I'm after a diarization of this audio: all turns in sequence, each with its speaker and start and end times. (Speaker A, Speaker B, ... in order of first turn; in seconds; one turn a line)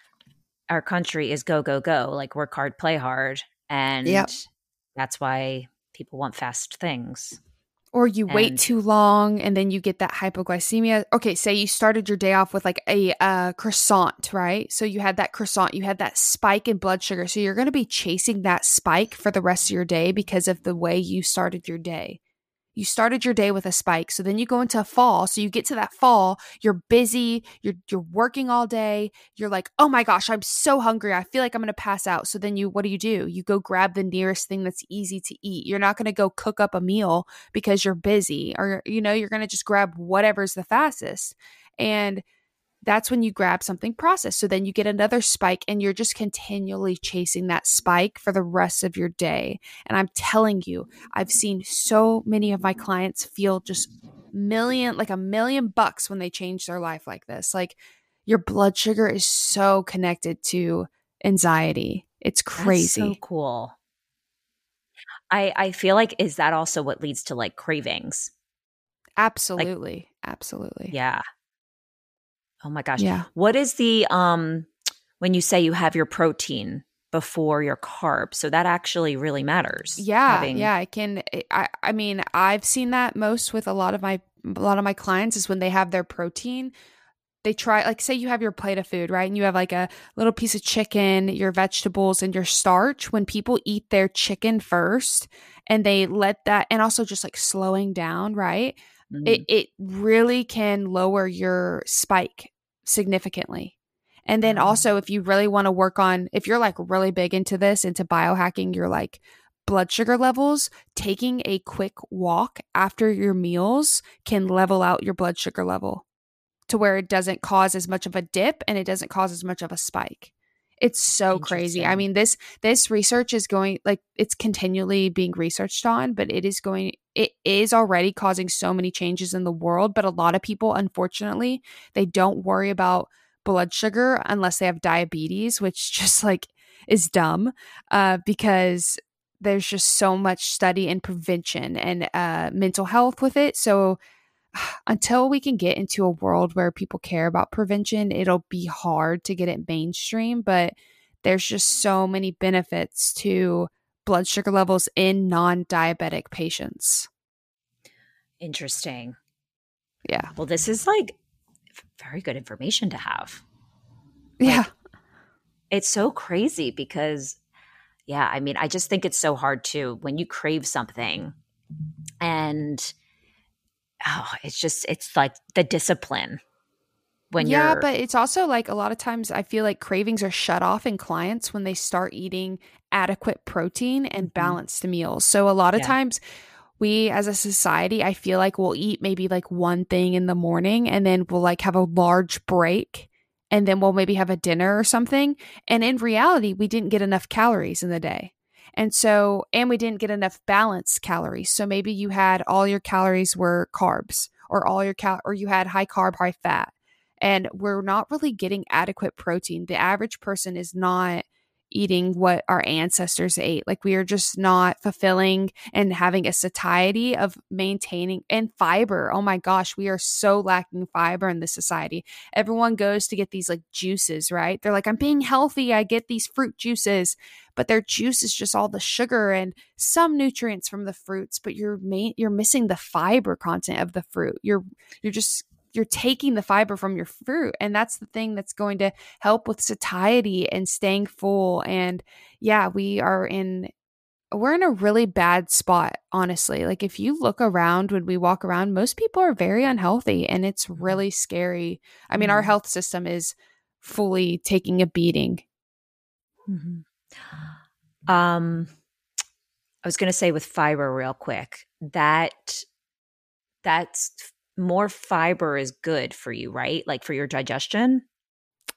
Speaker A: 0.7-4.4
Speaker A: 5.0-7.4
Speaker B: 7.9-22.2
Speaker A: 8.3-8.7
Speaker B: 22.8-42.2
Speaker B: 42.8-63.1
Speaker A: 62.6-63.7
Speaker A: 65.3-68.3
Speaker B: 69.2-70.9
Speaker A: 70.9-71.2
Speaker A: 72.6-80.7
Speaker B: 73.0-73.2
Speaker B: 80.0-86.7
Speaker B: 87.4-103.7
Speaker A: 99.1-99.4
Speaker B: 104.2-116.0
Speaker A: 104.4-104.8
Speaker B: 116.7-144.0
Speaker A: 121.3-122.0
Speaker B: 144.5-157.1
Speaker A: 158.4-159.2
Speaker A: 160.3-161.1
Speaker A: 162.0-163.4
Speaker B: 164.4-164.7
Speaker A: 165.7-167.4
Speaker A: 168.1-171.3
Speaker A: 172.2-172.9
Speaker A: 174.0-176.4
Speaker A: 177.3-177.8
Speaker B: 177.4-186.2
Speaker A: 184.2-184.6
Speaker B: 186.8-243.7
Speaker B: 244.3-255.4
Speaker A: 252.1-252.5
Speaker A: 256.5-256.8
Speaker A: 258.1-258.7
Speaker A: 259.8-262.6
Speaker A: 263.6-268.0